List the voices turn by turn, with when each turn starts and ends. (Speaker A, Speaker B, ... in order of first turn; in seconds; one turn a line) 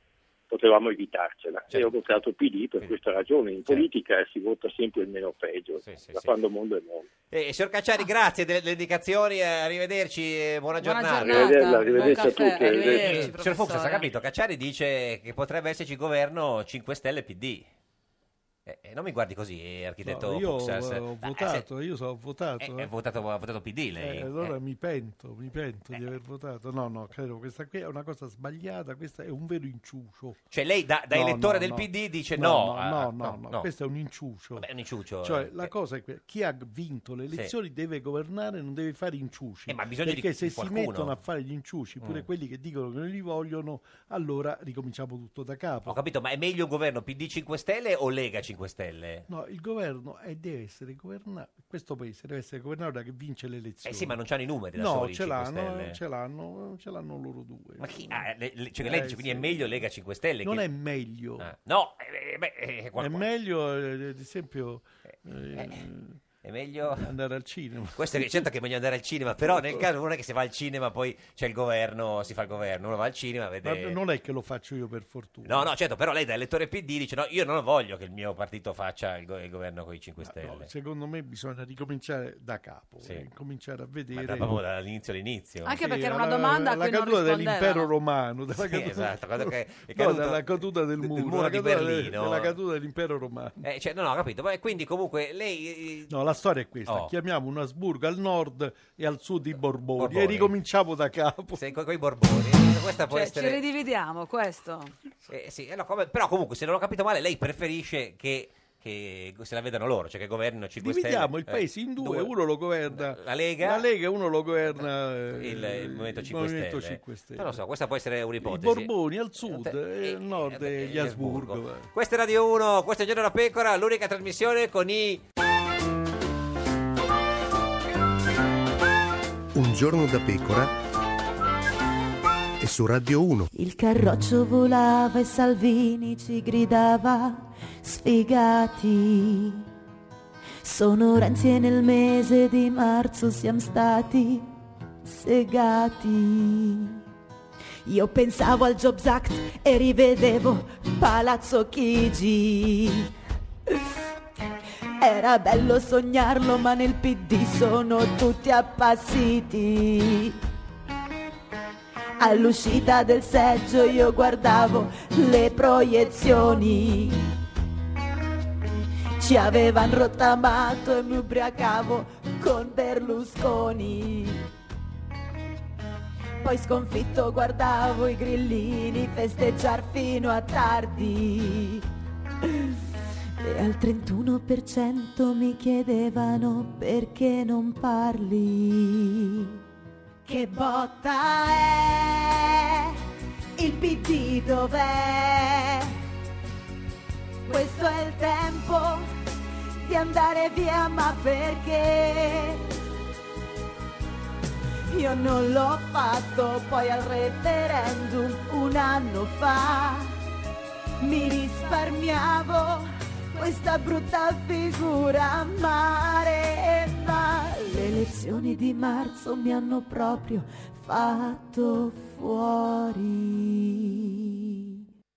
Speaker A: 0.5-7.1
Speaker B: 5.8-6.3
Speaker B: 7.3-17.7
Speaker C: 10.8-14.1
Speaker A: 11.2-13.3
Speaker B: 18.7-21.6
Speaker D: 20.1-22.9
Speaker B: 22.6-24.5
Speaker D: 24.0-30.4
Speaker B: 30.5-33.7
Speaker D: 31.1-34.7
Speaker B: 34.6-35.7
Speaker D: 35.2-46.0
Speaker B: 39.7-41.2
Speaker B: 45.9-49.3
Speaker D: 49.3-54.1
Speaker B: 53.9-56.0
Speaker D: 54.8-58.2
Speaker B: 57.8-60.6
Speaker D: 58.8-59.9
Speaker D: 60.4-61.5
Speaker B: 61.4-63.3
Speaker D: 63.0-66.2
Speaker B: 66.4-67.1
Speaker D: 66.8-68.5
Speaker B: 68.0-74.0
Speaker D: 69.4-69.9
Speaker D: 73.6-75.7
Speaker B: 75.5-80.7
Speaker D: 80.2-84.5
Speaker B: 84.1-85.8
Speaker C: 85.7-87.9
Speaker D: 85.7-93.6
Speaker B: 88.6-92.6
Speaker B: 93.6-96.1
Speaker D: 96.1-101.6
Speaker B: 96.9-97.1
Speaker B: 100.0-100.5
Speaker B: 101.5-103.6
Speaker C: 103.1-104.9
Speaker B: 105.3-112.3
Speaker D: 110.8-117.6
Speaker B: 112.9-113.9
Speaker B: 114.7-118.9
Speaker D: 118.4-121.9
Speaker B: 119.4-125.2
Speaker E: 129.5-130.7
Speaker E: 132.6-133.5
Speaker F: 133.6-139.7
Speaker F: 140.6-144.5
Speaker F: 145.0-147.0
Speaker F: 147.8-153.1
Speaker F: 155.0-160.4
Speaker F: 162.2-167.3
Speaker F: 169.2-174.4
Speaker F: 176.4-181.8
Speaker F: 182.4-182.8
Speaker F: 183.4-189.6
Speaker F: 190.3-193.0
Speaker F: 193.6-195.9
Speaker F: 197.5-199.1
Speaker F: 199.8-202.7
Speaker F: 204.9-210.1
Speaker F: 211.0-224.7